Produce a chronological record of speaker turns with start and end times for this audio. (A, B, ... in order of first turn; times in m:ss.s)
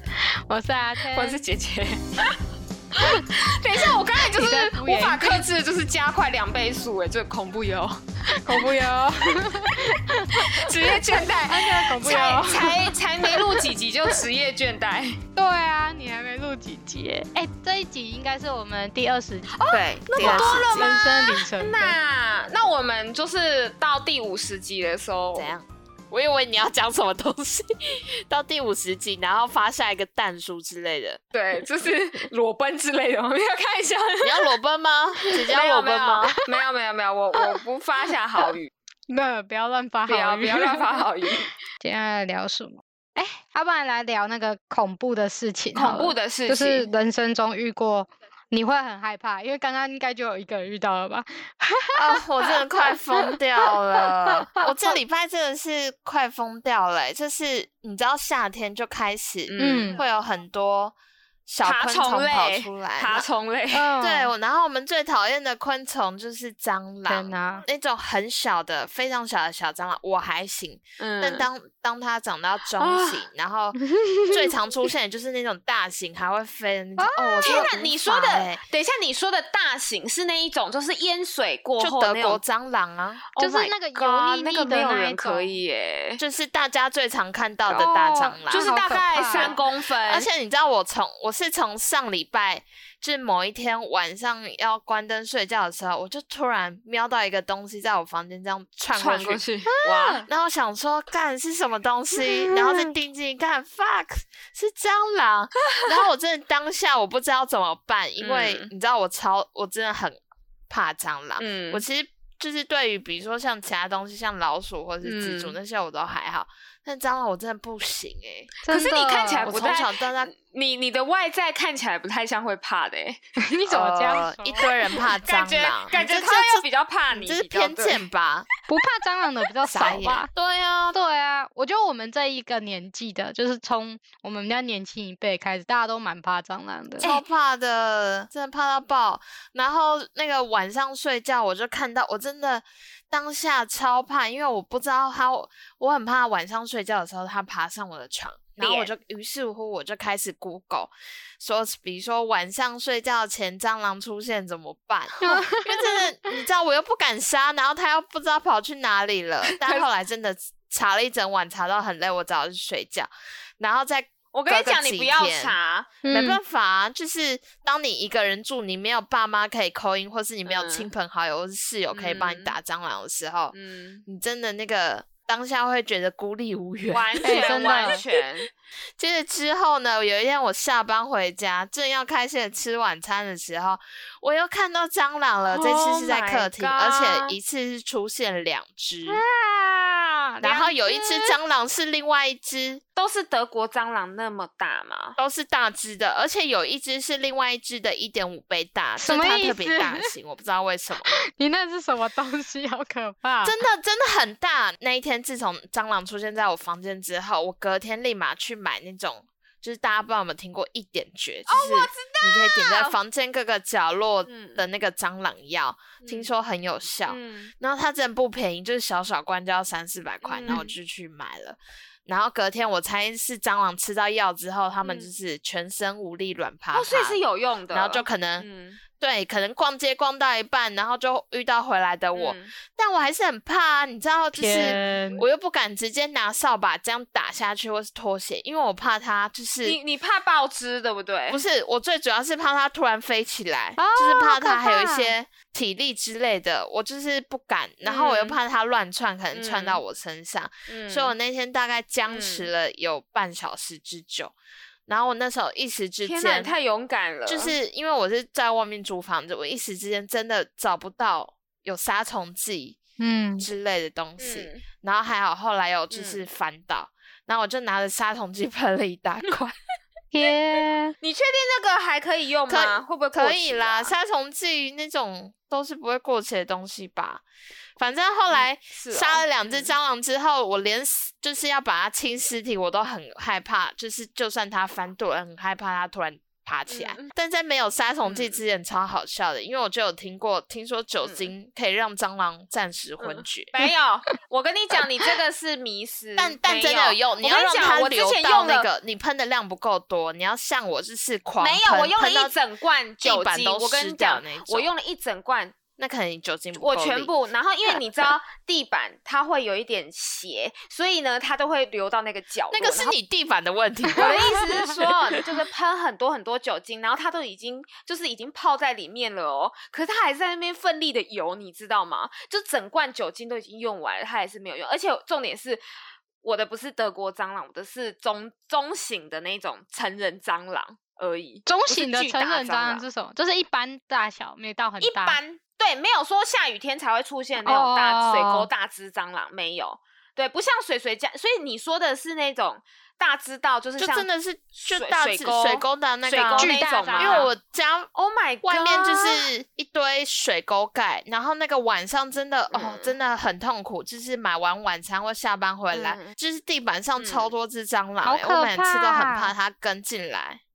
0:00.2-0:01.4 A
0:01.1-0:02.4 B
0:02.9-0:08.7 B
0:03.0-0:03.3 A
0:04.1-0:05.5 A
0:08.3-0:14.2 A
0:09.3-0:15.2 B
0:15.4-0:19.6 A
0:19.5-0:25.5 B
0:19.7-0:20.9 C
0:20.2-0:22.0 A
0:25.4-0:31.2 C
0:31.3-0:34.5 B
0:34.2-0:36.4 C
0:35.3-0:38.7 B
0:39.1-0:52.1 A
0:40.1-0:41.5 B
0:45.8-0:46.9 B
0:52.0-1:01.0 C
0:52.9-0:53.7 A
0:59.5-1:00.0 B
0:59.6-1:00.0 A
1:01.5-1:03.3 C
1:01.6-1:03.9 B
1:03.7-1:04.3 A
1:04.0-1:18.6 C
1:07.1-1:07.6 A
1:11.0-1:11.5 B
1:12.8-1:13.3 B
1:17.0-1:17.7 A
1:17.4-1:22.4 B
1:21.8-1:23.2 C
1:23.4-1:26.2 B
1:23.4-1:25.6 A
1:26.2-1:28.7 C
1:27.7-1:29.6 A
1:28.5-1:30.3 B
1:29.3-1:39.4 C
1:39.0-1:40.3 B
1:39.7-1:40.3 A
1:40.3-1:50.2 C
1:48.2-1:48.7 B
1:50.7-1:58.5 C
1:51.4-1:51.8 B
1:55.0-1:55.6 B
1:58.7-1:59.6 A
1:58.7-2:03.2 B
1:59.5-2:00.3 C
2:03.4-2:05.0 A
2:03.7-2:08.5 C
2:04.6-2:08.0 B
2:08.7-2:10.3 A
2:09.7-2:11.0 C
2:10.9-2:17.1 A
2:17.0-2:53.6 C
2:28.6-2:28.9 B
2:35.2-2:36.1 A
2:44.3-2:46.0 B
2:46.0-2:46.4 A
2:50.5-2:50.9 B
2:51.9-2:52.5 B
2:53.5-2:54.0 B
2:54.1-2:58.1 C
2:56.9-2:58.5 B
2:57.2-2:58.0 A
2:59.0-3:09.2 C
3:05.5-3:07.4 B
3:09.1-3:09.4 B
3:09.5-3:10.2 A
3:10.3-3:11.1 B
3:10.4-3:12.8 C
3:13.0-3:15.2 B
3:15.2-3:21.1 C
3:19.0-3:20.1 A
3:21.3-3:23.5 A
3:23.4-3:47.2 C
3:31.5-3:33.0 B
3:34.3-3:34.6 B
3:36.0-3:36.3 B
3:37.1-3:37.5 B
3:40.2-3:40.8 B
3:44.8-3:45.1 B
3:46.7-3:48.8 B
3:47.7-3:48.5 C
3:49.0-3:59.8 C
3:52.2-3:52.5 B
3:54.4-3:55.2 A
3:59.6-4:01.4 B
4:01.3-4:14.3 C
4:03.8-4:05.1 A
4:07.8-4:08.4 B
4:09.3-4:09.8 B
4:10.7-4:11.1 B
4:12.1-4:12.5 B
4:14.9-4:16.5 C
4:16.1-4:17.6 B
4:17.3-4:22.8 C
4:23.0-4:23.5 A
4:23.4-4:29.6 C
4:24.2-4:24.6 B
4:25.9-4:26.2 B
4:30.1-4:31.0 A
4:31.0-4:33.9 B
4:32.5-4:37.2 C
4:37.8-4:53.5 C
4:38.3-4:39.7 B
4:46.7-4:47.1 B
4:48.0-4:48.4 B
4:51.0-4:51.3 B
4:53.0-4:58.7 B
4:56.2-5:02.4 C
5:01.4-5:05.6 B
5:03.0-5:04.7 C
5:05.8-5:07.1 C
5:06.6-5:13.0 B
5:12.5-5:15.2 C
5:14.0-5:25.6 B
5:26.2-5:32.8 B
5:31.5-5:35.2 A
5:34.8-5:44.1 B
5:37.4-5:38.5 A
5:43.8-5:47.9 C
5:44.6-5:47.3 B
5:46.3-5:47.3 A
5:48.0-5:49.3 B
5:48.4-6:00.4 C
5:52.5-5:53.0 B
5:55.7-5:56.2 B
5:57.0-5:57.3 B
5:58.0-5:59.3 A